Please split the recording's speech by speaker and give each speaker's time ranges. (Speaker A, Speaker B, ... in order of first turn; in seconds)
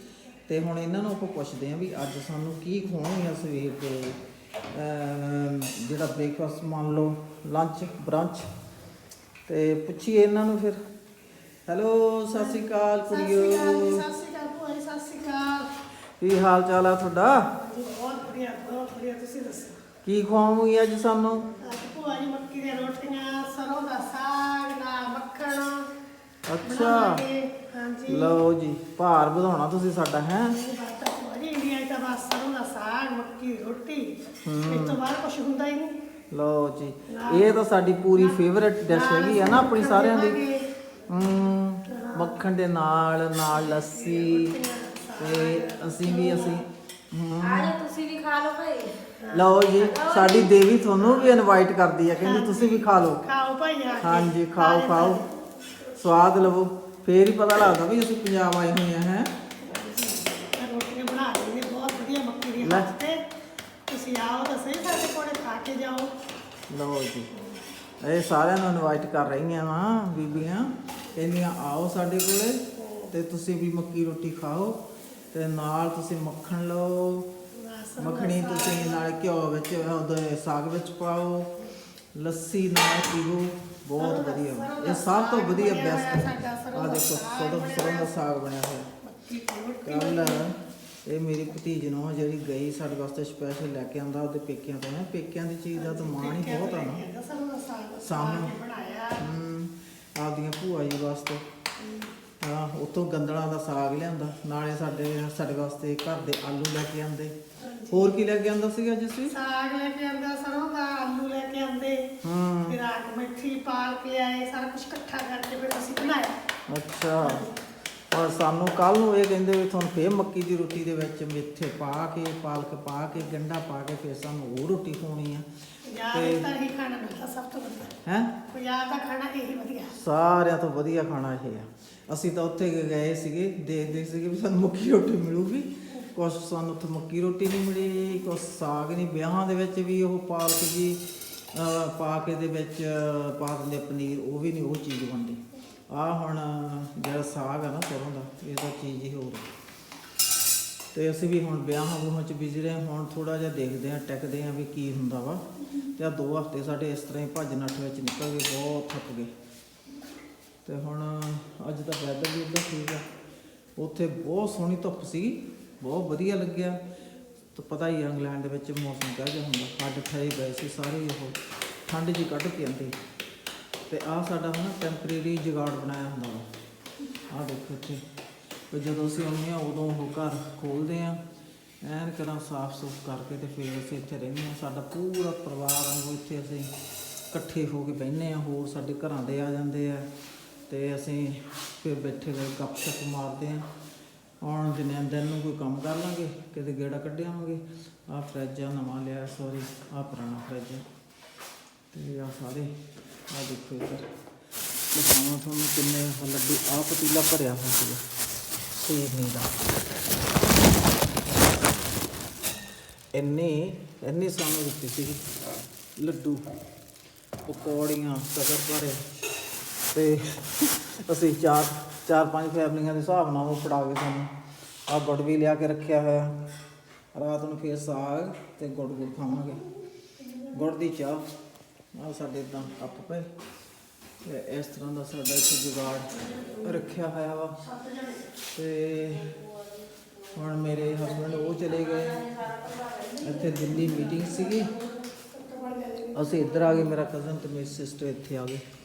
Speaker A: 0.5-4.2, 4.7-8.5, 9.5-10.8, 11.7-14.0, 16.2-17.5, 20.0-21.5, 26.5-27.2, 28.1-30.6, 34.4-35.0, 36.3-40.4, 41.1-44.5, 45.2-47.8, 49.3-53.2, 54.0-55.2, 55.9-59.3, 62.6-62.9, 66.7-67.3, 68.0-74.8, 75.3-77.3, 78.0-81.5, 82.2-88.9, 89.8-97.0, 98.0-98.5, 99.2-101.4, 102.4-107.3, 107.9-109.4, 112.2-112.8, 116.7-117.5, 118.1-125.5, 126.1-126.5, 128.0-128.4, 129.9-141.0, 141.5-149.5, 150.9-159.3, 160.7-163.1, 163.8-166.8, 167.5-173.0, 173.9-176.5, 177.3-178.0, 178.7-181.2, 181.8-186.7, 187.3-190.1, 190.7-193.7, 194.4-200.8, 201.9-202.8, 203.3-204.1, 204.9-208.0, 208.7-209.6, 213.1-215.3, 216.0-216.4, 217.5-219.0, 219.9-224.3, 224.9-226.4, 227.1-229.7, 230.4-231.3, 231.9-233.3, 234.2-237.6, 238.4-239.4, 240.3-242.5, 243.1-244.7, 246.1-248.6
Speaker B: 12.4-15.7, 17.6-19.8, 21.6-25.9, 26.6-28.4, 30.5-36.0, 37.1-37.5, 38.1-40.7, 41.9-42.4, 43.5-46.7, 49.2-49.5, 51.0-51.3, 52.2-55.3, 59.6-63.2, 63.9-66.1, 72.8-73.1, 77.5-79.0, 84.0-88.1, 89.0-90.5, 95.8-99.3, 101.8-102.1, 107.6-108.2, 109.3-112.1, 112.7-116.4, 117.2-117.6, 125.9-128.0, 128.5-130.0, 236.1-236.7, 237.6-238.3, 244.2-247.0
Speaker C: 47.5-49.0, 49.8-50.5, 242.2-243.5